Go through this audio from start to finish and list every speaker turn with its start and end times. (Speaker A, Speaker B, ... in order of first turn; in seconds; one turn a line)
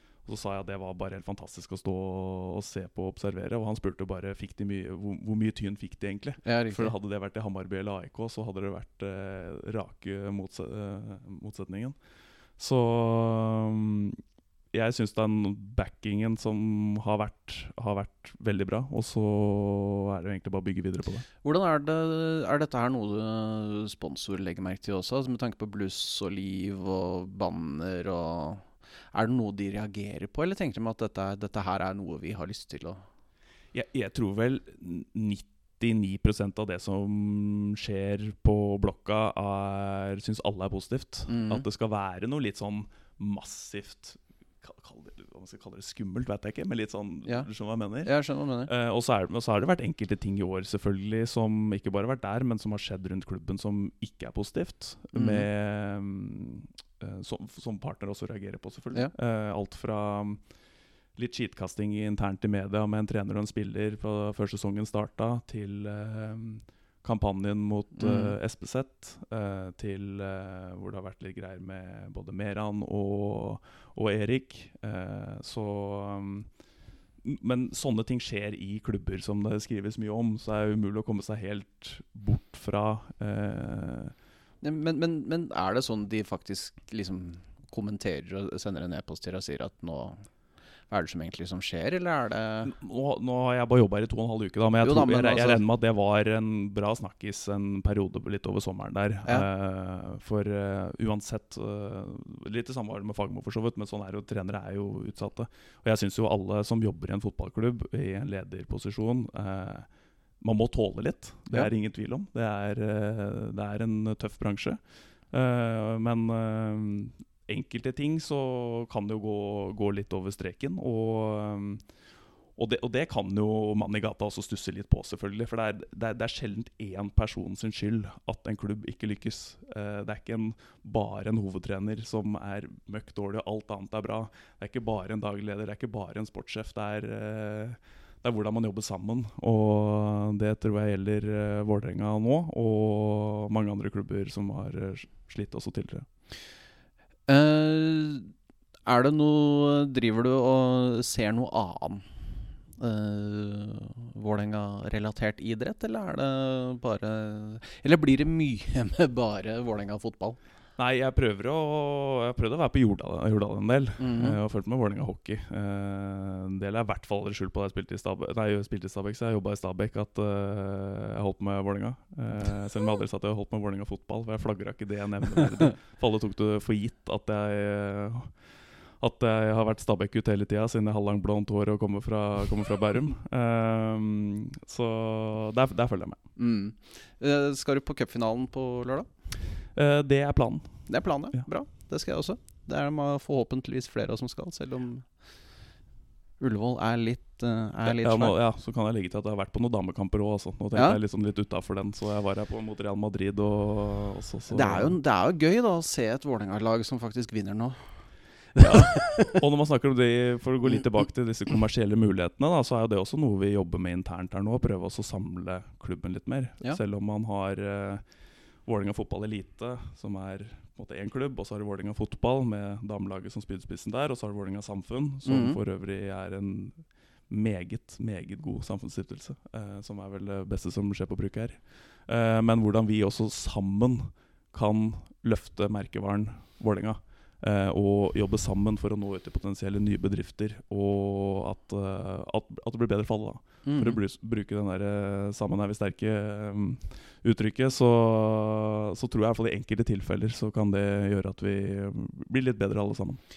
Speaker A: 0.2-11.9
Speaker B: 6.4-6.9
Speaker A: 12.6-14.2
Speaker A: 14.7-21.3
Speaker B: 21.4-33.0
Speaker A: 33.7-48.1
Speaker B: 41.3-41.6
Speaker B: 48.0-48.7
Speaker A: 48.7-60.4
Speaker B: 55.1-55.5
Speaker A: 61.1-76.5
Speaker B: 68.0-68.3
Speaker A: 77.2-84.1
Speaker B: 84.6-90.2
Speaker B: 90.9-92.7
Speaker A: 92.6-109.9
Speaker B: 94.8-95.6
Speaker A: 110.4-114.8
Speaker A: 115.3-121.8
Speaker A: 122.6-146.1
Speaker B: 147.3-148.3
Speaker B: 148.8-152.0
Speaker B: 152.8-160.4
Speaker A: 160.8-178.3
Speaker B: 164.0-164.4
Speaker A: 179.0-186.2
Speaker B: 186.4-189.1
Speaker A: 189.7-190.7
Speaker B: 190.9-195.1
Speaker B: 196.4-198.4
Speaker A: 197.8-205.0
Speaker B: 200.7-201.0
Speaker B: 204.5-207.8
Speaker B: 208.6-209.4
Speaker A: 208.6-218.0
Speaker A: 218.7-253.2
Speaker B: 225.2-225.6
Speaker B: 243.6-244.0